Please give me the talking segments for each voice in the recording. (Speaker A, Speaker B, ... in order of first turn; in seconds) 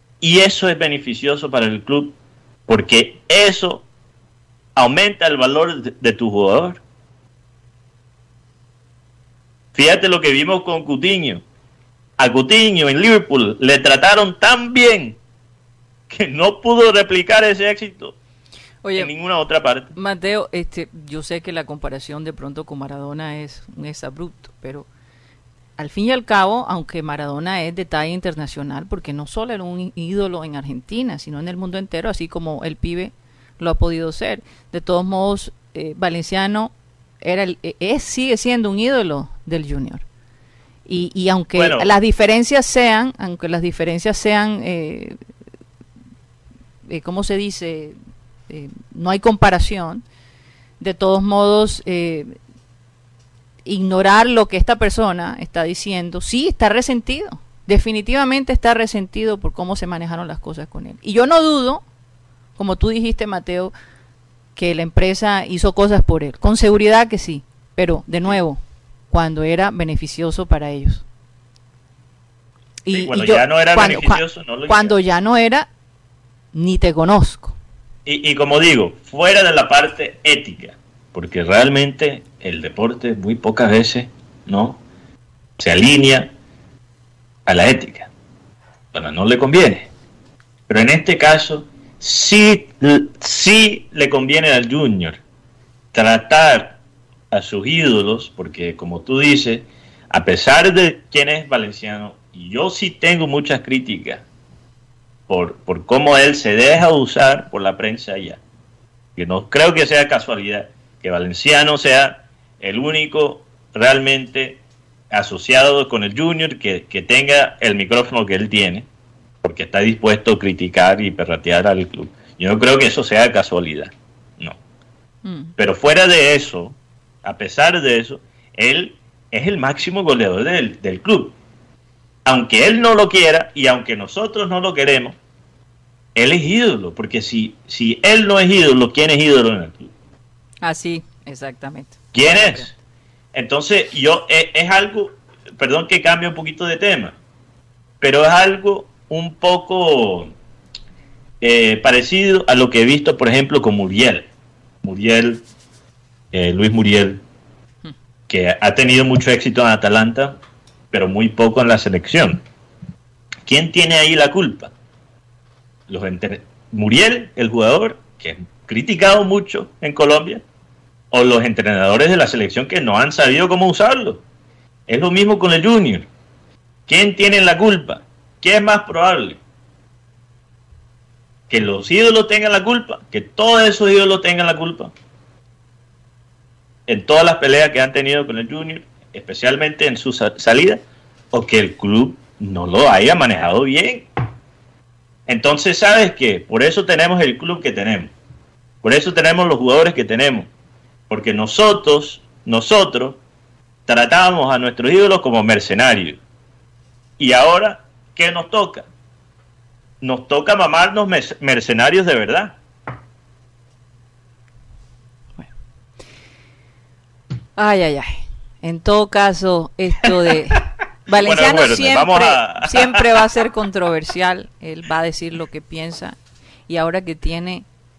Speaker A: 0.2-2.1, 2.7-3.8, 4.8-6.8, 9.7-11.4, 12.2-15.2, 16.1-18.1, 18.9-19.9, 41.5-41.9, 72.9-75.0, 78.0-84.8, 85.6-86.3, 87.5-88.1, 88.9-89.9, 90.7-95.2, 95.9-96.8, 97.3-104.2, 105.3-108.4, 109.2-118.9, 119.4-124.6, 125.6-131.3, 132.2-135.2, 136.1-139.9, 142.1-142.7, 143.3-147.1, 148.0-150.3, 151.4-154.3, 154.8-155.4, 156.3-157.2, 158.3-160.4, 160.9-162.4, 163.4-164.7, 165.9-170.4, 171.1-174.2, 174.9-176.1, 176.9-179.4, 181.5-184.9, 186.9-194.1, 195.3-198.1, 198.8-200.5, 201.1-203.2, 203.9-206.2, 207.2-208.9, 210.0-212.6, 221.2-223.2
Speaker B: 18.8-19.1, 19.9-24.9, 25.8-40.0, 40.9-45.2, 46.9-48.0, 48.5-50.0, 50.8-52.4, 53.6-61.8, 62.6-63.7, 64.5-71.0, 72.8-75.7, 76.5-77.5, 125.2-125.5, 140.6-142.7, 217.6-226.2, 226.7-227.7